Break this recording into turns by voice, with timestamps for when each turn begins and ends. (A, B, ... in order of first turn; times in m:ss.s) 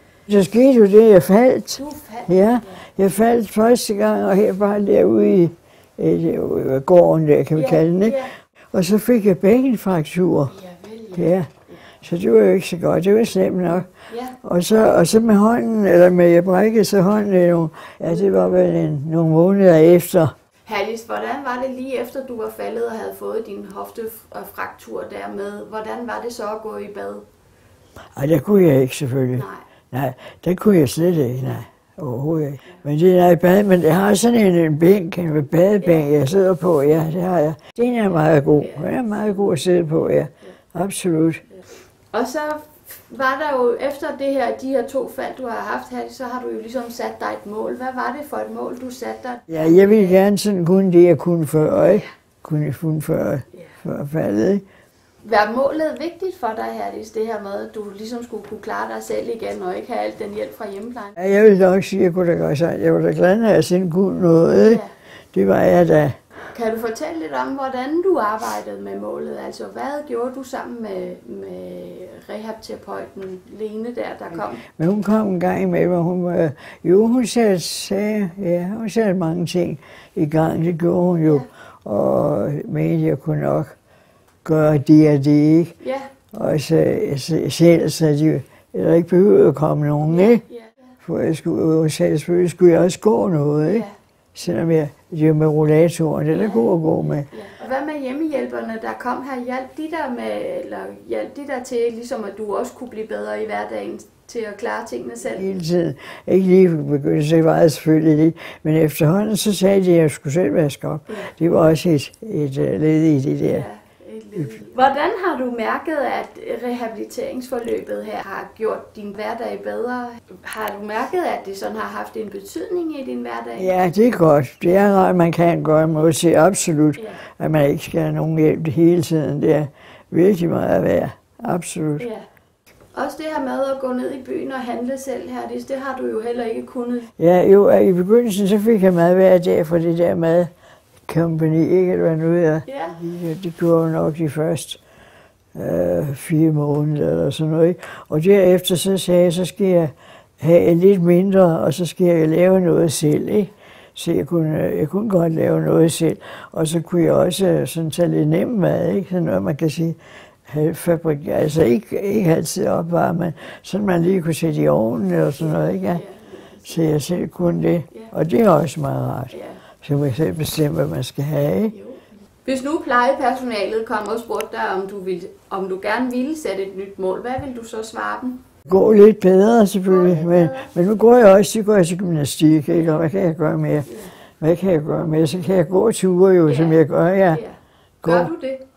0:00.3-0:10.6 A
0:01.8-0:02.8 B
0:07.5-0:08.3 B
0:10.5-0:11.2 B
0:11.1-0:11.5 A
0:12.0-0:13.9 A
0:14.0-0:14.4 B
0:14.4-0:20.3 A
0:20.6-0:27.2 B
0:28.1-0:41.4 A
0:29.4-0:29.6 B
0:35.8-0:36.1 B
0:38.5-0:39.1 B
0:42.1-0:50.2 B
0:49.5-0:54.6 A
0:51.8-0:52.1 B
0:55.2-1:01.2 B
1:01.2-1:06.2 A
1:04.6-1:04.9 B
1:06.5-1:14.6 B
1:14.7-1:23.7 A
1:24.4-1:25.7 A
1:25.8-1:26.1 B
1:26.3-1:30.4 A
1:30.0-1:30.8 B
1:31.0-1:37.3 A
1:33.6-1:33.9 B
1:36.3-1:36.7 B
1:37.3-1:45.5 B
1:45.3-1:53.6 A
1:53.5-2:03.7 B
1:54.3-1:54.7 A
2:03.5-2:12.1 A
2:12.0-2:12.2 B
2:12.9-2:17.1 B
2:17.2-2:20.5 A
2:21.1-2:24.8 A
2:22.6-2:23.0 B
2:25.5-2:46.0 A
2:45.5-2:46.8 B
2:46.6-2:51.7 A
2:49.3-2:49.6 B
2:51.7-2:58.4 B
2:58.7-3:07.4 A
2:59.9-3:00.7 B
3:03.9-3:04.1 B
3:06.4-3:08.6 B
3:08.0-3:08.3 A